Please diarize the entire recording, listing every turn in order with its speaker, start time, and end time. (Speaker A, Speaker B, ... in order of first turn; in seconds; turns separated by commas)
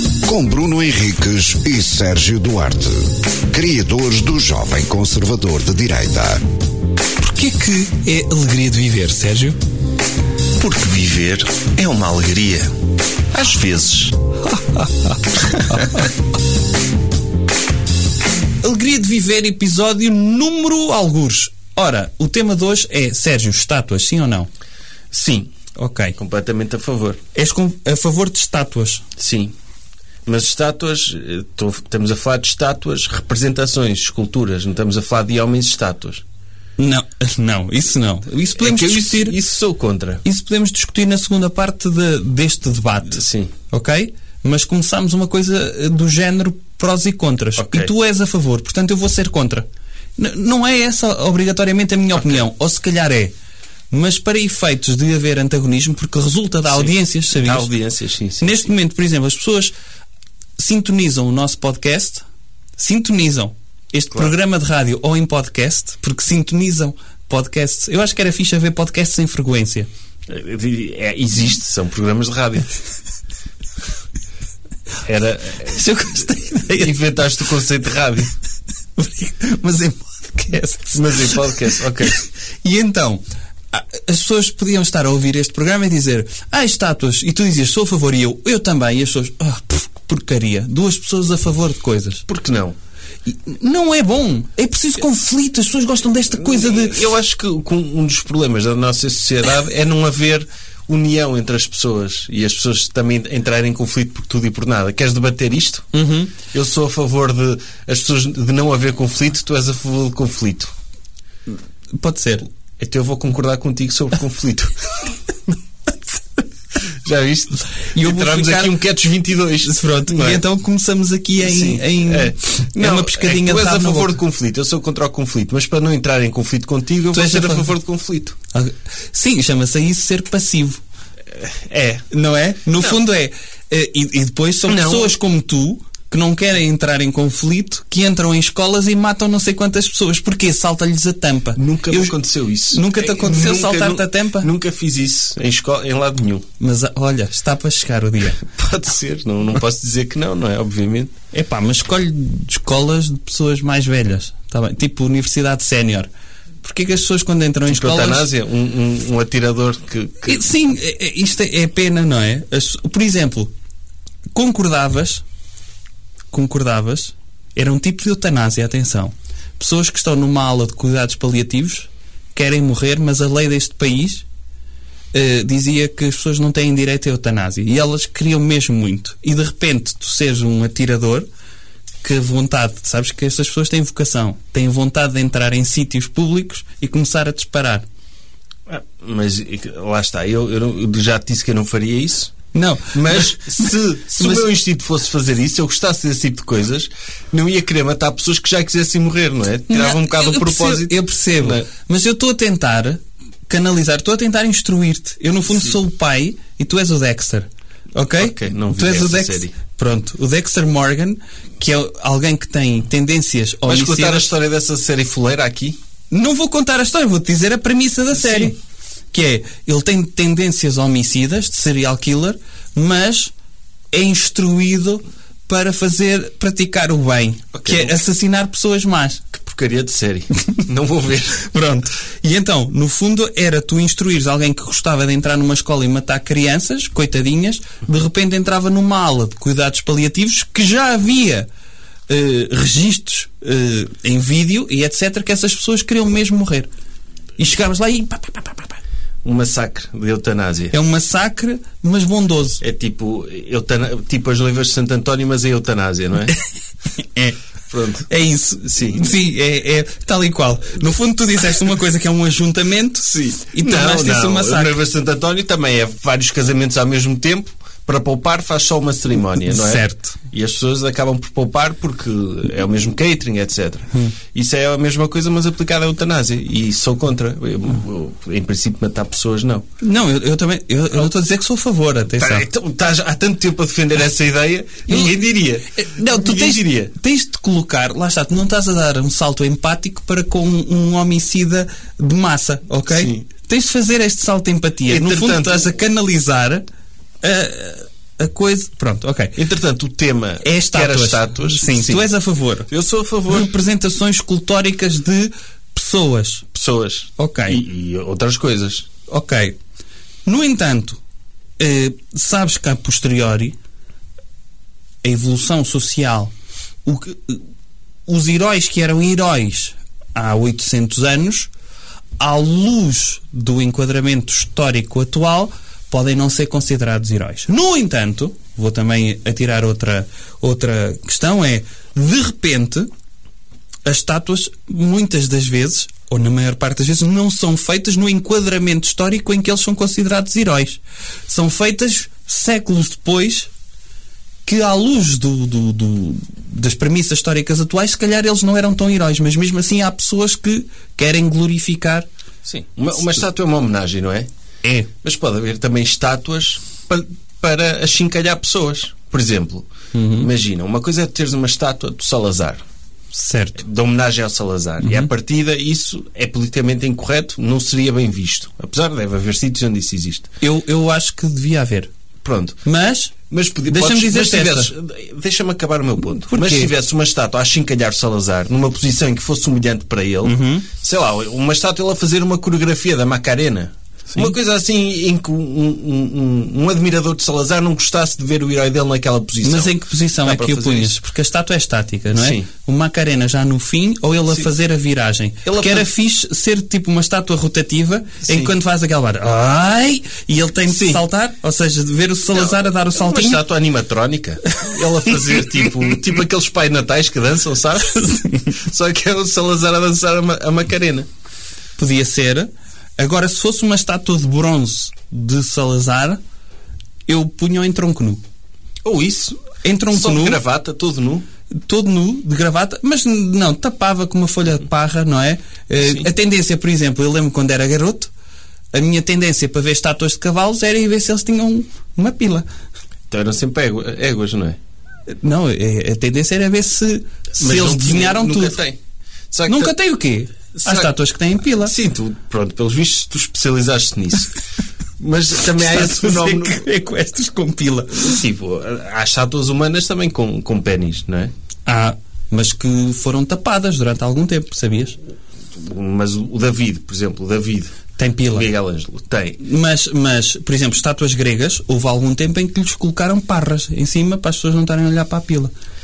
Speaker A: 0.2-6.4, Speaker B: 7.2-9.6, Speaker C: 10.6-12.7, Speaker C: 13.3-14.1, Speaker B: 18.6-24.5, Speaker C: 25.1-25.5, Speaker B: 25.8-26.1, Speaker C: 26.2-27.2, Speaker B: 27.3-29.0, Speaker C: 29.2-29.5, Speaker C: 30.2-36.2, Speaker B: 36.8-39.4, Speaker C: 38.5-40.2, Speaker B: 40.2-49.6, Speaker C: 43.1-43.5, Speaker C: 47.6-47.9, Speaker B: 50.2-53.3, Speaker C: 52.1-52.4, Speaker B: 53.9-57.7, Speaker C: 56.7-58.6, Speaker B: 58.4-59.7, Speaker B: 60.6-62.2, Speaker B: 62.8-69.9, Speaker C: 70.3-72.7, Speaker C: 75.0-75.8, Speaker B: 75.6-77.0, Speaker C: 76.8-78.3, Speaker B: 79.0-81.5, Speaker C: 80.9-82.1, Speaker B: 82.1-92.2, Speaker C: 92.3-92.8, Speaker B: 93.3-97.0, Speaker C: 96.4-110.7, Speaker B: 105.9-106.3, Speaker B: 112.0-112.5, Speaker C: 112.8-115.0, Speaker C: 117.0-120.4, Speaker B: 117.9-118.8, Speaker B: 119.6-124.2, Speaker C: 121.4-128.3, Speaker B: 127.1-127.7, Speaker B: 128.5-130.8, Speaker C: 131.3-132.1, Speaker B: 132.1-142.1, Speaker C: 132.7-133.0, Speaker C: 134.7-135.2, Speaker C: 141.6-146.4, Speaker B: 142.7-144.5, Speaker B: 146.6-148.4, Speaker C: 148.4-151.1, Speaker B: 151.3-156.1, Speaker B: 156.6-158.3, Speaker C: 157.7-160.4, Speaker B: 160.2-163.5, Speaker B: 164.3-165.2, Speaker B: 166.3-174.2, Speaker B: 175.1-181.2, Speaker B: 182.0-187.8, Speaker C: 188.7-192.3, Speaker B: 192.5-194.5, Speaker C: 192.9-201.7, Speaker B: 199.7-214.3, Speaker C: 208.2-209.5, Speaker C: 213.6-215.8, Speaker B: 216.1-218.6, Speaker C: 218.2-218.5, Speaker B: 219.1-223.3, Speaker B: 223.9-229.2, Speaker C: 227.5-228.0, Speaker C: 229.3-231.4, Speaker B: 231.4-241.5, Speaker B: 242.1-246.7, Speaker B: 247.4-248.8, Speaker C: 249.2-250.7, Speaker B: 250.7-252.6, Speaker C: 252.6-256.3, Speaker B: 257.0-257.4, Speaker C: 257.7-258.1, Speaker B: 258.1-264.8, Speaker C: 258.7-259.0, Speaker C: 263.0-279.6, Speaker B: 269.5-270.2, Speaker B: 279.8-282.4, Speaker C: 282.2-286.9, Speaker B: 284.9-285.2, Speaker B: 285.7-296.6, Speaker C: 292.9-293.2, Speaker C: 294.9-295.7, Speaker B: 297.2-299.3, Speaker C: 299.4-302.1, Speaker B: 300.4-302.7, Speaker C: 302.7-303.5, Speaker B: 303.3-306.4, Speaker C: 306.5-308.9, Speaker B: 307.2-307.6, Speaker B: 309.1-309.5, Speaker B: 310.2-311.0, Speaker B: 311.6-313.6, Speaker B: 315.0-316.3, Speaker B: 316.8-317.4, Speaker B: 318.1-321.5, Speaker B: 322.2-332.9, Speaker B: 333.8-343.5, Speaker B: 344.4-352.1, Speaker C: 352.4-354.3, Speaker C: 355.0-359.7, Speaker B: 359.9-360.3, Speaker C: 360.2-362.6, Speaker B: 363.1-363.6, Speaker C: 363.6-370.3, Speaker B: 364.8-365.1, Speaker B: 370.4-371.9, Speaker C: 372.2-372.6, Speaker B: 372.6-373.1, Speaker C: 373.3-390.9, Speaker B: 373.7-374.7, Speaker B: 376.3-376.7, Speaker B: 380.2-380.7, Speaker B: 389.4-403.4, Speaker C: 392.1-392.5, Speaker C: 395.4-395.9, Speaker C: 398.2-398.5, Speaker C: 400.7-401.0, Speaker C: 402.3-411.1, Speaker B: 411.8-416.2, Speaker B: 417.1-418.2, Speaker C: 418.8-421.2, Speaker B: 419.6-420.4, Speaker B: 421.6-428.1, Speaker C: 425.8-426.1, Speaker B: 428.7-432.4, Speaker C: 433.1-434.6, Speaker B: 435.1-438.6, Speaker C: 437.4-438.8, Speaker C: 439.3-439.8, Speaker B: 439.5-441.7, Speaker C: 440.6-440.9, Speaker C: 441.6-444.4, Speaker C: 445.0-446.6, Speaker B: 445.6-448.2, Speaker C: 448.1-451.3, Speaker B: 451.6-455.0, Speaker C: 455.5-457.7, Speaker B: 458.0-458.5, Speaker C: 458.3-459.4, Speaker B: 459.4-465.5